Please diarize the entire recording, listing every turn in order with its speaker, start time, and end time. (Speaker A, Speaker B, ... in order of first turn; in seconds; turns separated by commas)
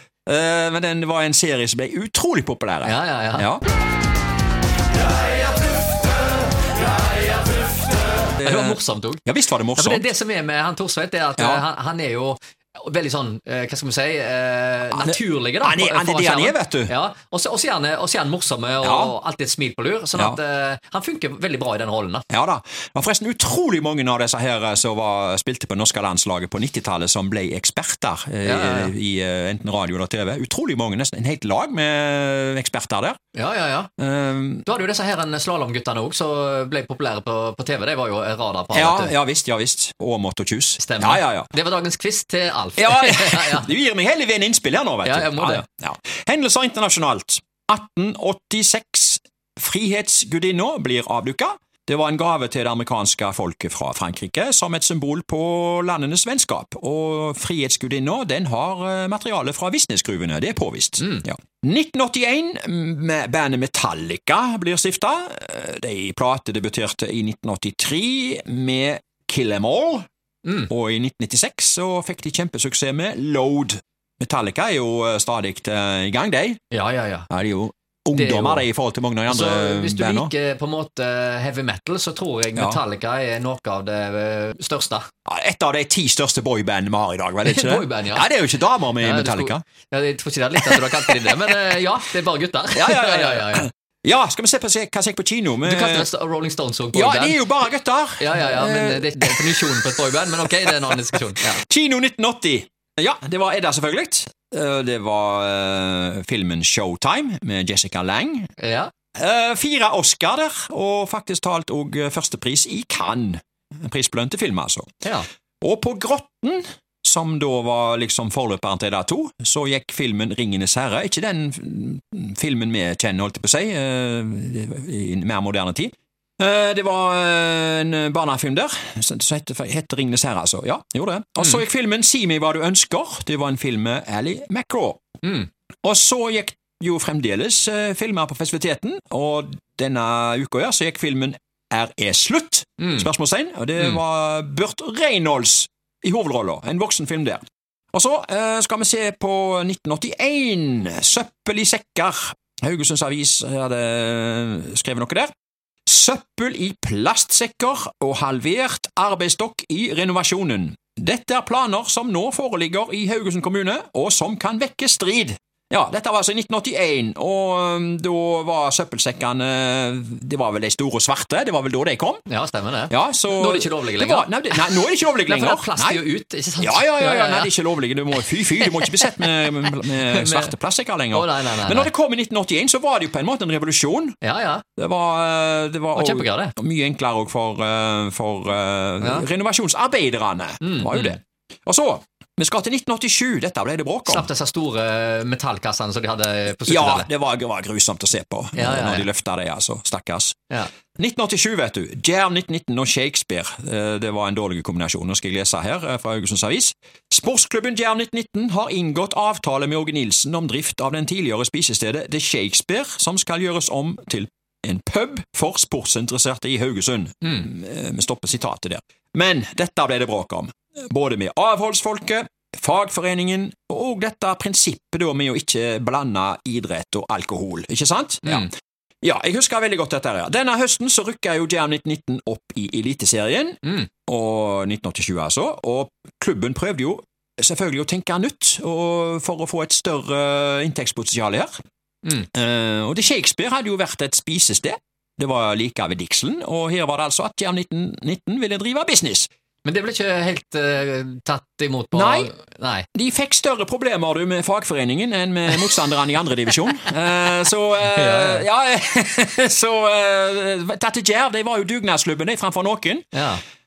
Speaker A: 0.2-3.6, Speaker B: 2.8-3.5, Speaker B: 8.4-9.2, Speaker A: 8.4-10.1, Speaker B: 9.8-22.2, Speaker A: 11.4-11.6, Speaker A: 15.0-16.9, Speaker A: 18.8-19.1, Speaker A: 22.3-33.2, Speaker B: 28.4-28.9, Speaker B: 33.3-33.9, Speaker A: 34.0-34.6, Speaker B: 34.6-39.1, Speaker A: 38.7-41.5, Speaker B: 40.8-43.7, Speaker A: 42.8-70.0, Speaker B: 45.0-45.6, Speaker B: 61.0-61.2, Speaker B: 70.4-70.7, Speaker A: 70.7-76.6, Speaker B: 76.7-77.3, Speaker A: 77.3-80.3, Speaker B: 78.1-78.7, Speaker B: 79.3-85.1, Speaker A: 82.5-82.8, Speaker A: 85.2-89.6, Speaker B: 87.4-88.2, Speaker B: 89.0-93.7, Speaker A: 90.6-91.2, Speaker A: 92.7-96.1, Speaker B: 95.6-97.4, Speaker A: 96.9-108.5, Speaker B: 98.2-101.6, Speaker B: 108.6-108.9, Speaker A: 109.1-114.9, Speaker A: 115.6-135.0, Speaker B: 135.2-135.5, Speaker A: 135.8-155.3, Speaker B: 142.8-143.1, Speaker A: 155.8-172.2, Speaker B: 172.3-177.5, Speaker A: 172.9-176.0, Speaker A: 176.6-184.2, Speaker B: 178.1-180.5, Speaker B: 181.1-181.9, Speaker B: 184.2-184.6, Speaker A: 184.8-194.3, Speaker B: 185.9-186.5, Speaker B: 190.6-191.2, Speaker B: 194.1-197.1, Speaker A: 196.7-200.4, Speaker B: 198.6-199.1, Speaker A: 200.9-228.5, Speaker A: 229.0-241.5, Speaker A: 242.2-249.3, Speaker B: 249.6-252.8, Speaker A: 251.9-252.3, Speaker A: 252.9-263.1, Speaker B: 257.8-258.4, Speaker B: 263.1-263.4